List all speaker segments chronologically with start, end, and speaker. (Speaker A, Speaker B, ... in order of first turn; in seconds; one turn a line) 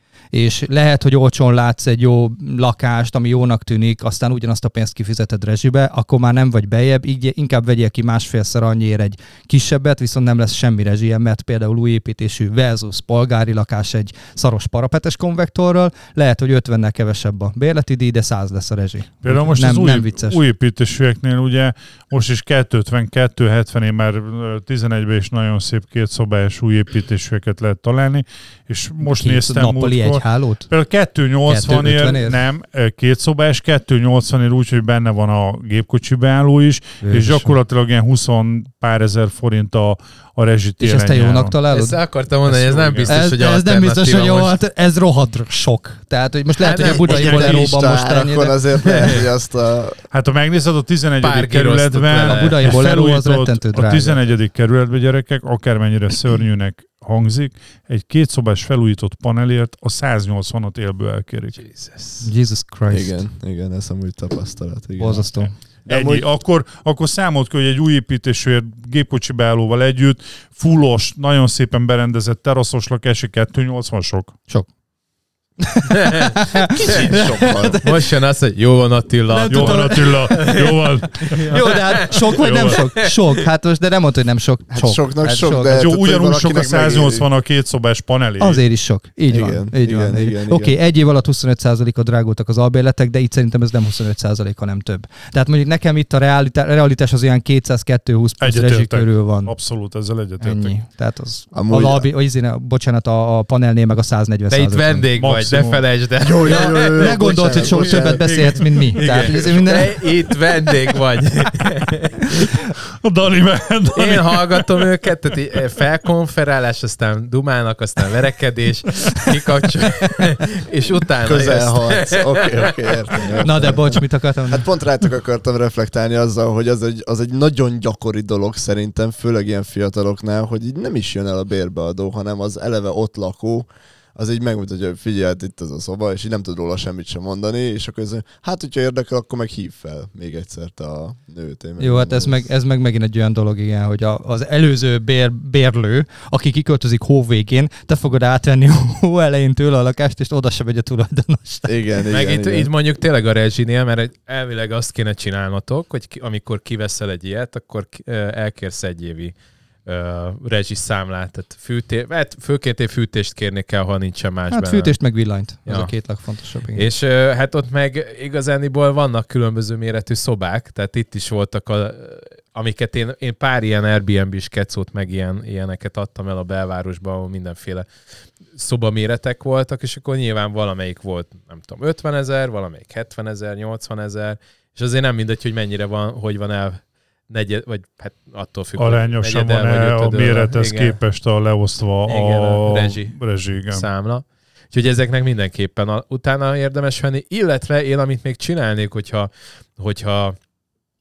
Speaker A: 0.3-20.4
Speaker B: 19.2-41.5
Speaker A: 29.0-30.7
Speaker A: 31.5-32.4
Speaker A: 37.0-37.5
Speaker A: 40.8-42.0
Speaker C: 41.7-44.5
Speaker B: 42.5-43.1
Speaker A: 43.1-48.6
Speaker C: 46.6-47.7
Speaker D: 46.8-50.0
Speaker C: 48.8-49.3
Speaker B: 50.1-61.6
Speaker C: 51.2-52.8
Speaker A: 52.2-54.2
Speaker C: 61.5-62.3
Speaker A: 62.2-63.2
Speaker D: 62.9-65.3
Speaker A: 65.0-65.5
Speaker D: 65.8-66.2
Speaker B: 65.9-74.3
Speaker A: 75.6-78.0
Speaker C: 76.0-76.3
Speaker D: 76.8-77.8
Speaker C: 77.8-83.4
Speaker A: 79.3-80.6
Speaker B: 79.5-81.6
Speaker A: 81.5-85.8
Speaker B: 82.2-82.8
Speaker D: 84.7-87.3
Speaker B: 85.7-88.6
Speaker A: 88.4-99.5
Speaker D: 89.3-90.8
Speaker B: 98.4-100.7
Speaker A: 100.4-105.1
Speaker D: 101.5-102.1
Speaker C: 104.5-112.3
Speaker B: 105.2-105.8
Speaker D: 106.2-108.6
Speaker A: 106.4-110.0
Speaker B: 109.0-109.5
Speaker B: 113.0-114.8
Speaker C: 113.9-123.4
Speaker D: 121.2-142.4
Speaker A: 123.4-124.7
Speaker A: 141.8-151.8
Speaker D: 151.7-152.7
Speaker C: 152.1-159.3
Speaker C: 159.8-164.9
Speaker A: 164.5-166.8
Speaker C: 165.7-165.9
Speaker C: 166.7-177.9
Speaker C: 178.5-191.0
Speaker B: 188.8-193.8
Speaker C: 192.1-193.2
Speaker C: 193.7-200.4